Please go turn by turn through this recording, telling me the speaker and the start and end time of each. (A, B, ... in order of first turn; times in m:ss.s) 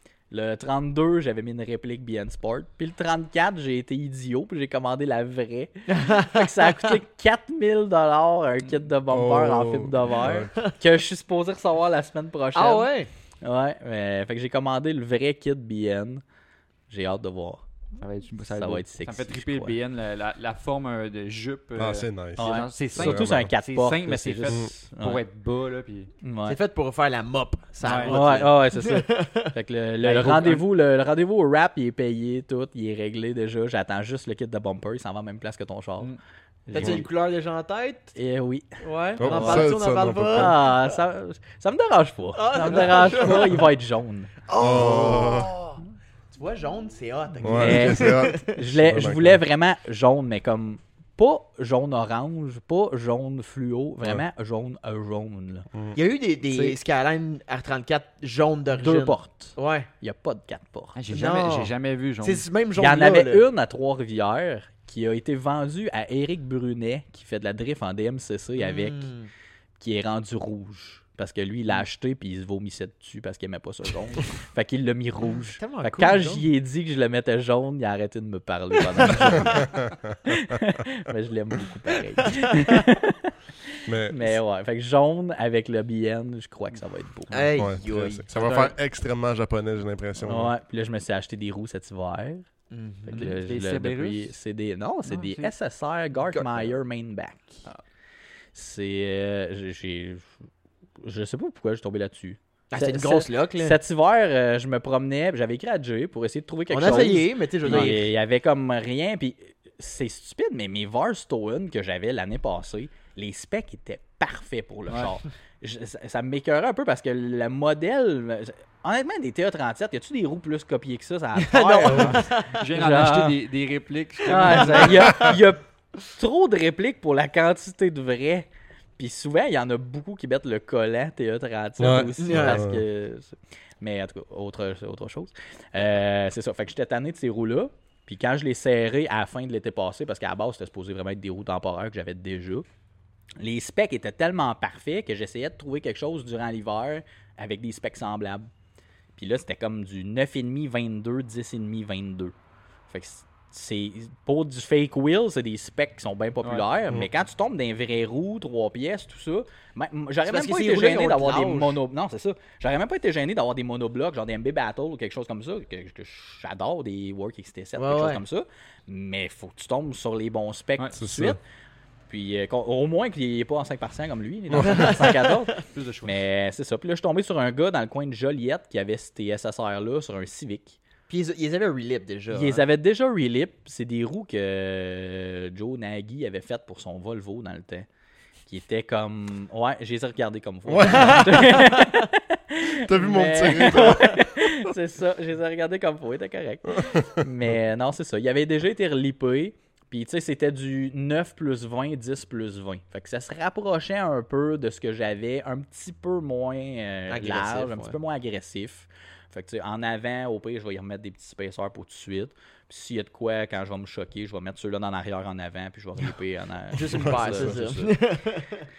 0:00.3-0:16.2 A
0:05.9-0:06.9 B
0:09.1-0:10.5 C
0:12.5-0:13.1 B
0:16.9-0:17.6 A
0:18.0-0:26.1 D
0:18.5-0:19.7 A
0:21.8-0:23.5 C
0:22.4-0:25.2 A
0:26.2-0:26.6 A
0:26.4-0:29.5 B
0:27.8-0:28.2 D
0:27.9-0:36.1 A
0:30.0-0:30.6 D
0:36.7-0:37.1 A
0:36.7-0:38.1 B
0:38.1-0:44.3 A
0:38.8-0:40.7 B
0:39.2-0:40.6 C
0:42.3-0:43.6 B
0:44.5-0:45.8 B
0:44.6-0:45.5 C
0:46.3-0:48.4 B
0:47.4-0:49.4 C
0:47.5-0:55.7 A
0:55.9-0:59.9 B
0:56.4-0:56.8 D
0:58.7-1:01.4 A
1:00.9-1:02.4 D
1:01.1-1:03.4 B
1:02.8-1:09.1 A
1:08.6-1:09.3 B
1:09.8-1:19.7 A
1:15.6-1:16.4 B
1:19.1-1:20.6 C
1:19.2-1:19.6 D
1:20.3-1:23.3 A
1:23.8-1:24.4 C
1:24.1-1:27.5 A
1:27.3-1:28.2 B
1:27.6-1:30.5 C
1:28.4-1:28.7 D
1:30.2-1:32.5 A
1:32.7-1:33.4 B
1:33.0-1:37.6 A
1:33.1-1:34.4 D
1:35.0-1:35.5 D
1:36.3-1:36.7 B
1:38.5-1:40.3 A
1:41.0-2:03.4 A
1:42.7-1:43.8 B
1:46.7-1:48.1 B
2:01.4-2:02.6 B
2:01.9-2:05.3 D
2:04.2-2:08.5 A
2:09.0-2:22.6 A
2:11.8-2:12.8 C
2:12.2-2:12.6 B
2:23.4-2:28.5 A
2:29.2-2:32.3 A
2:32.9-2:51.4 A
2:40.2-2:41.8 B
2:47.8-2:48.2 B
2:51.0-2:51.4 C
2:52.1-3:00.8 A
2:54.5-2:54.8 C
2:54.8-2:55.1 D
2:55.6-2:56.1 D
3:01.1-3:02.6 B
3:02.3-3:07.9 A
3:08.4-3:38.0 A
3:10.6-3:11.6 C
3:10.9-3:11.2 B
3:12.6-3:14.7 C
3:27.1-3:27.9 B
3:36.7-3:38.7 B
3:37.0-3:37.4 C